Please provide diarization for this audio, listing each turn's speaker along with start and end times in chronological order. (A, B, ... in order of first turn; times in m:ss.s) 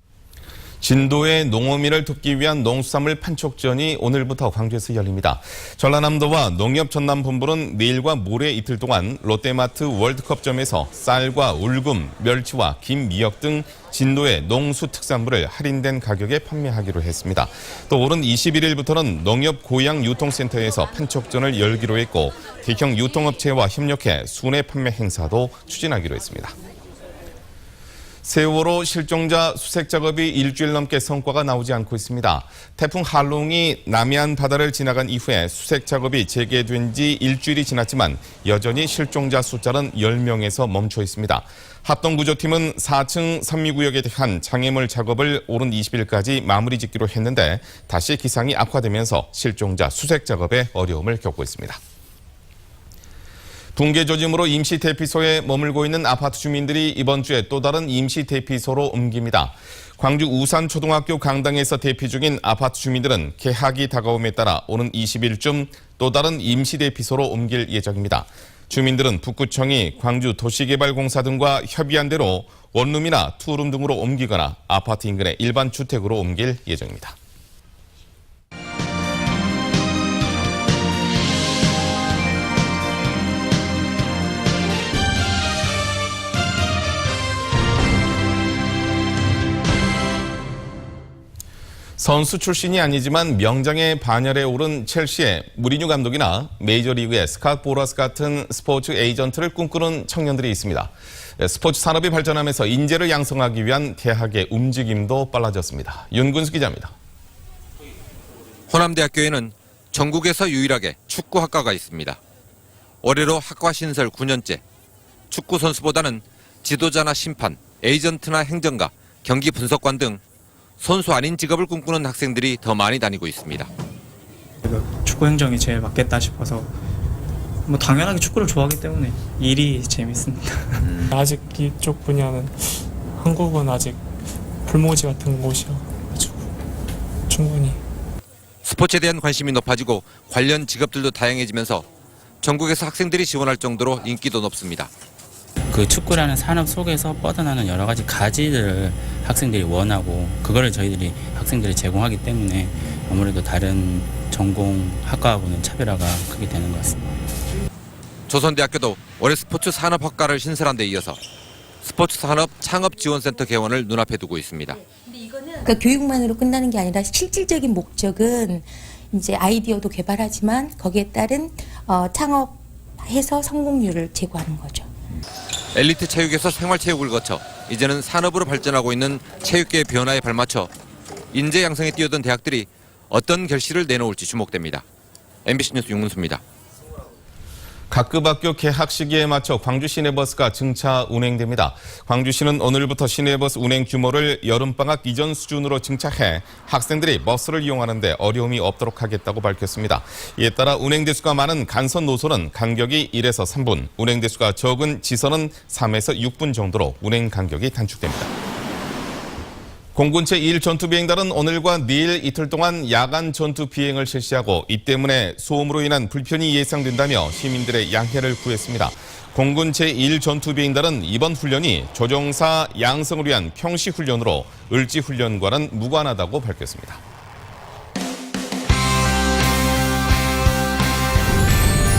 0:00.8-0:26.5 A
0:28.2-0:51.8 A
0:53.8-1:17.2 A
1:32.0-1:46.9 A
1:48.7-1:52.2 B
1:53.0-1:54.6 B
1:55.3-2:00.2 B
2:00.8-2:03.7 B
2:04.6-2:06.8 C
2:07.6-2:10.9 C
2:11.1-2:14.0 D
2:14.6-2:16.4 D
2:17.3-2:17.8 D
2:18.7-2:21.8 B
2:22.5-2:24.9 B
2:25.7-2:37.2 E
2:38.3-2:41.2 B
2:41.8-2:44.7 B
2:45.6-2:54.9 F
2:55.8-3:00.7 B
3:01.3-3:04.8 B
3:05.5-3:06.4 B
3:07.9-3:28.3 A
3:29.9-3:47.0 A